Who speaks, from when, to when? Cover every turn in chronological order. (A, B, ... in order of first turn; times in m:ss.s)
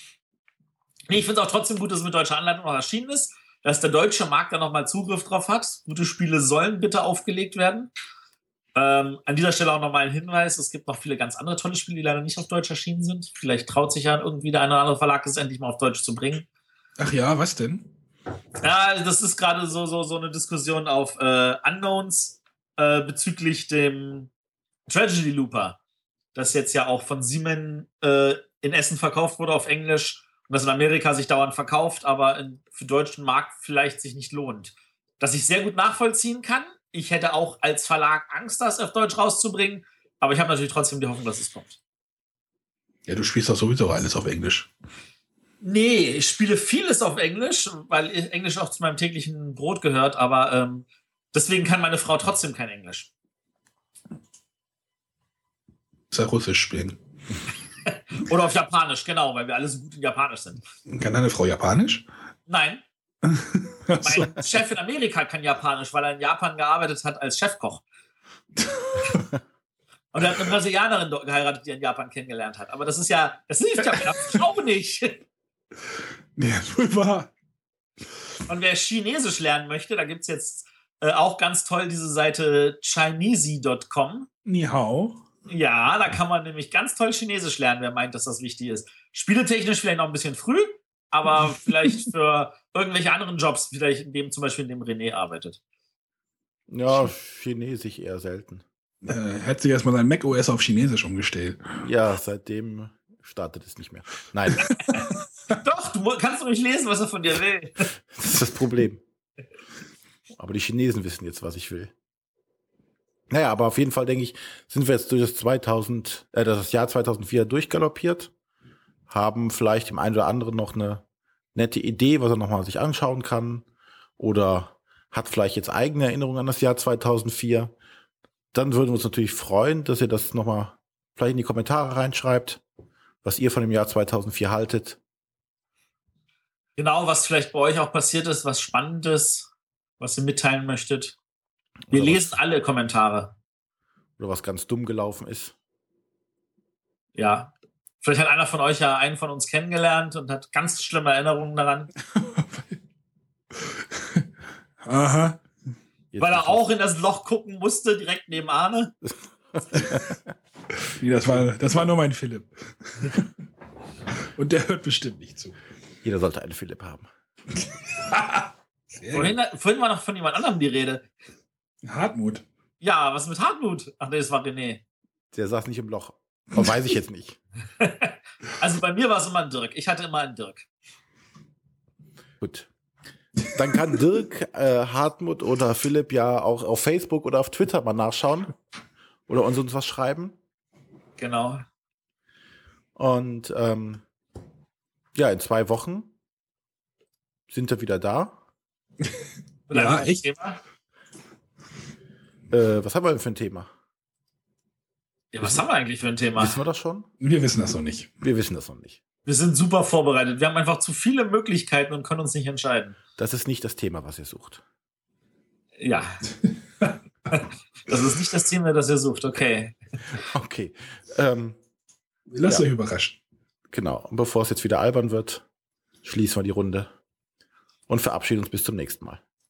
0:01.1-0:07.9 A
0:08.8-0:16.5 A
0:17.0-0:17.9 B
0:18.6-0:24.3 A
0:24.9-0:25.8 A
0:26.4-0:41.8 A
0:43.1-0:44.7 B
0:45.6-0:53.1 A
0:56.1-0:57.0 B
0:57.9-1:00.6 A
1:00.9-1:02.0 B
1:02.5-1:02.8 A
1:03.2-1:04.5 B
1:04.0-1:07.8 A
1:08.6-1:09.3 B
1:10.1-1:15.2 A
1:16.4-1:17.3 B
1:18.5-1:24.3 A
1:24.4-1:25.2 B
1:25.5-1:35.6 A
1:31.4-1:32.0 B
1:36.7-1:38.6 C
1:39.0-1:41.9 B
1:41.8-1:44.8 C
1:44.6-1:45.2 B
1:44.9-1:47.7 A
1:48.1-1:49.0 C
1:50.4-1:51.9 C
1:53.3-1:58.3 C
1:59.1-2:01.0 C
2:01.6-2:03.7 C
2:04.2-2:07.7 C
2:08.5-2:12.6 C
2:13.2-2:15.0 C
2:16.8-2:21.2 A
2:21.9-2:22.4 C
2:21.9-2:23.4 A
2:24.2-2:25.5 C
2:27.2-2:31.9 A
2:32.2-2:32.8 B
2:33.6-2:34.2 B
2:34.8-2:35.4 B
2:36.1-2:36.6 C
2:36.2-2:39.0 A
2:39.6-2:40.2 C
2:40.9-2:43.3 B
2:44.4-2:45.6 B
2:46.0-2:47.1 C
2:47.6-2:49.4 B
2:49.1-2:51.1 A
2:51.8-2:52.4 B
2:52.8-2:54.8 A
2:55.3-2:57.4 C
2:57.8-3:00.7 A
3:02.4-3:02.7 C
3:03.5-3:08.5 C
3:09.3-3:10.4 C
3:11.2-3:11.6 A
3:13.0-3:14.0 C
3:15.2-3:16.1 C
3:17.5-3:18.4 C
3:19.7-3:20.6 A
3:19.7-3:20.3 B
3:22.5-3:23.7 C
3:25.3-3:26.6 A
3:26.4-3:27.1 C
3:27.2-3:28.1 B
3:28.2-3:29.0 C
3:29.3-3:33.0 A
3:33.2-3:34.6 C
3:35.8-3:36.2 A
3:37.3-3:39.8 A
3:40.2-3:41.6 C
3:42.3-3:43.2 B
3:43.7-3:45.4 C
3:46.0-3:46.9 C
3:47.9-3:49.2 C